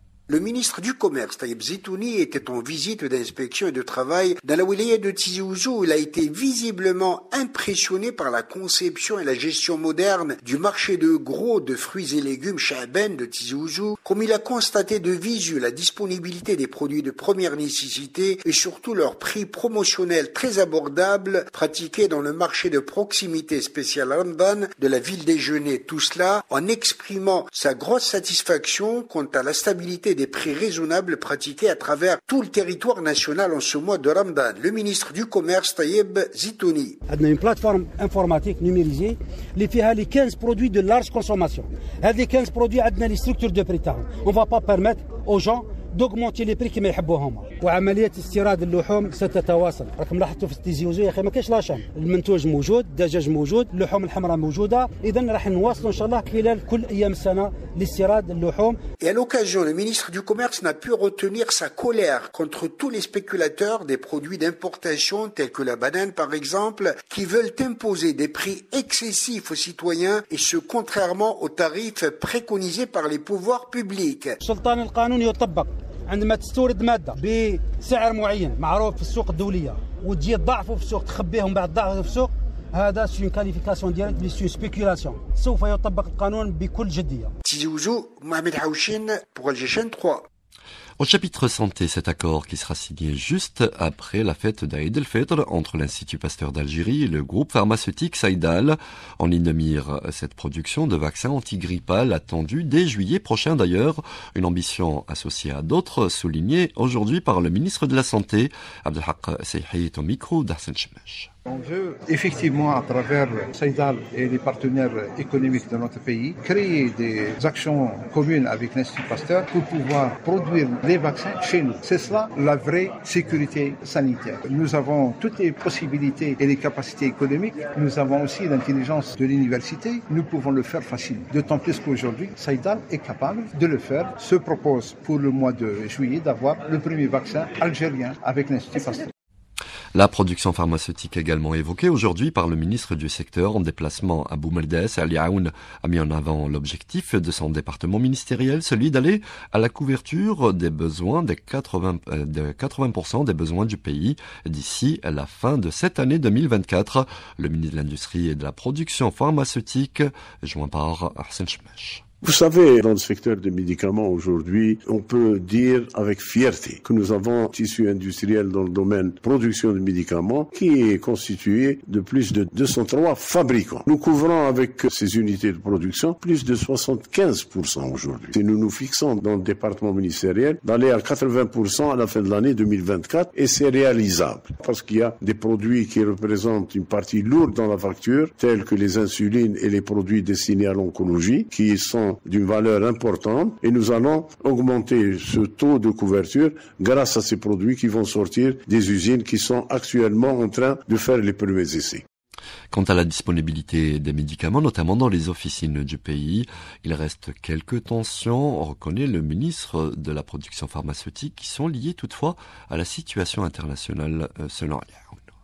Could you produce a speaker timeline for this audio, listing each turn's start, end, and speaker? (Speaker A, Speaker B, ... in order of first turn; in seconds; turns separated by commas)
Speaker A: 0.3-37.0, Speaker B: 37.1-58.8, Speaker A: 59.0-74.4, Speaker B: 74.4-87.3, Speaker A: 87.5-90.3, Speaker C: 91.0-111.3, Speaker D: 111.5-139.1, Speaker C: 139.9-162.0, Speaker E: 162.2-202.0, Speaker C: 202.7-215.2